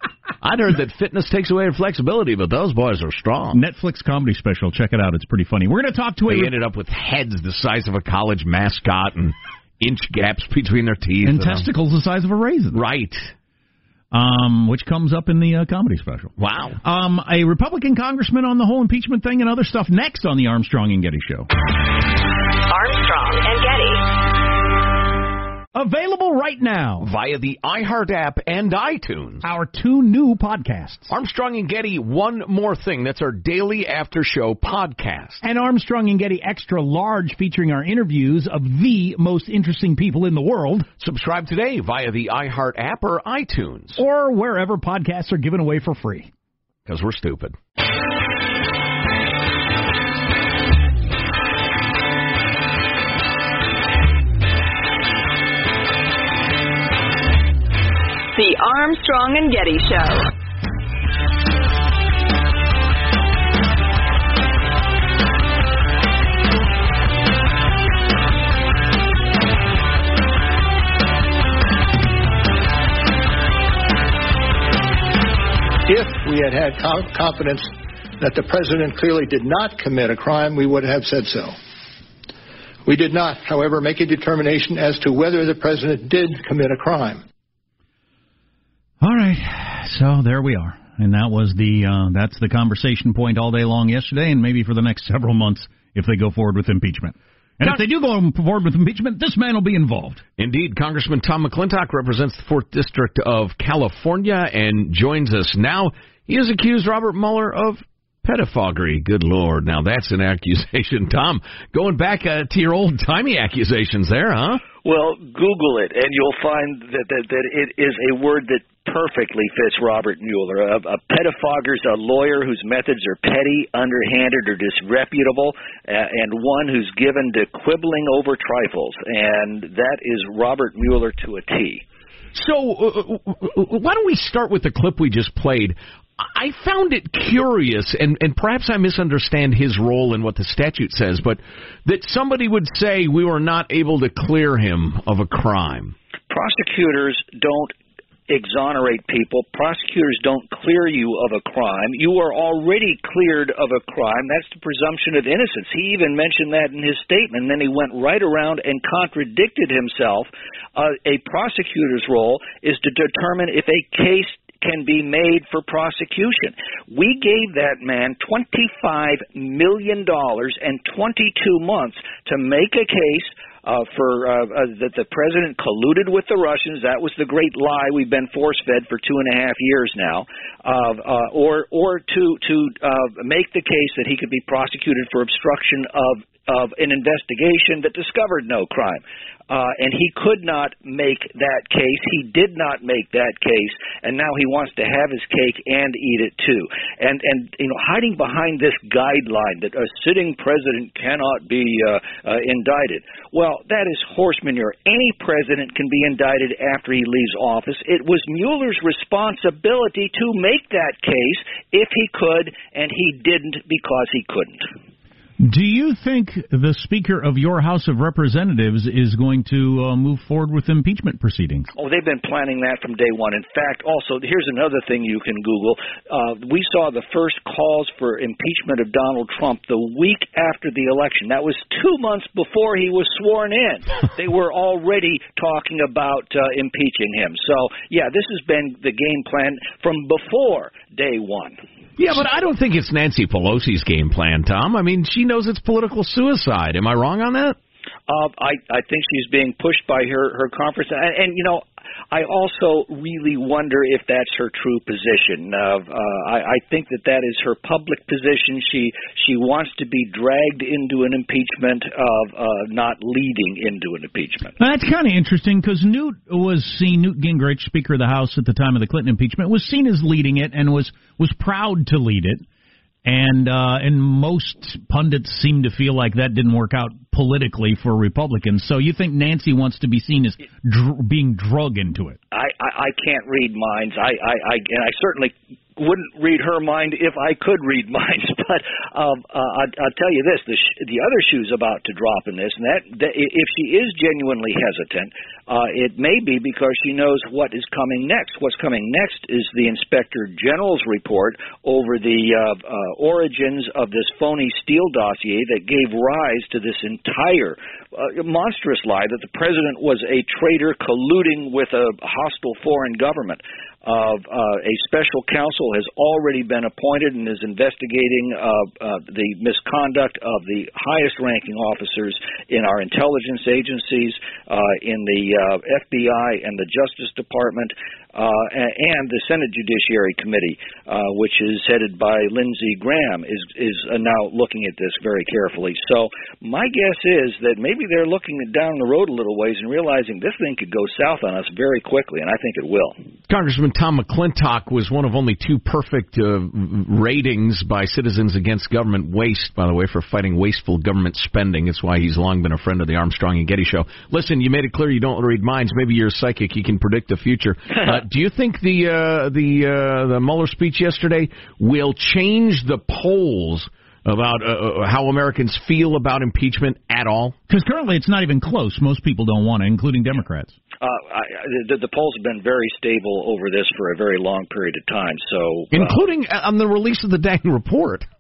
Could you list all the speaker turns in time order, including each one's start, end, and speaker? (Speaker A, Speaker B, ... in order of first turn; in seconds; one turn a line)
Speaker A: 0.4-3.6
Speaker B: 3.5-6.5
Speaker A: 6.3-11.7
Speaker B: 11.2-12.8
Speaker A: 12.7-13.3
Speaker B: 14.1-16.3
Speaker A: 16.4-16.8
Speaker B: 16.8-21.5
Speaker C: 22.7-24.1
Speaker B: 25.8-27.1
Speaker A: 27.0-29.4
Speaker B: 29.4-31.1
Speaker A: 31.1-35.4
Speaker B: 35.4-40.9
Speaker A: 41.0-44.0
Speaker B: 44.0-46.3
Speaker A: 46.9-47.6
Speaker C: 58.4-60.3
Speaker D: 75.9-81.6
Speaker D: 82.9-87.2
Speaker B: 89.0-100.2
Speaker A: 100.4-114.6
Speaker E: 114.8-131.8
Speaker A: 132.3-145.9
Speaker E: 146.3-147.8
Speaker E: 148.3-214.7
Speaker B: 215.4-221.7
Speaker E: 221.8-241.6
Speaker A: 242.0-247.6
Speaker E: 248.1-264.6
Speaker B: 264.6-272.4
Speaker B: 273.1-282.2
Speaker E: 282.3-343.0
Speaker A: 343.3-367.4
Speaker B: 367.5-370.6
Speaker E: 370.8-376.0
Speaker A: 375.7-378.1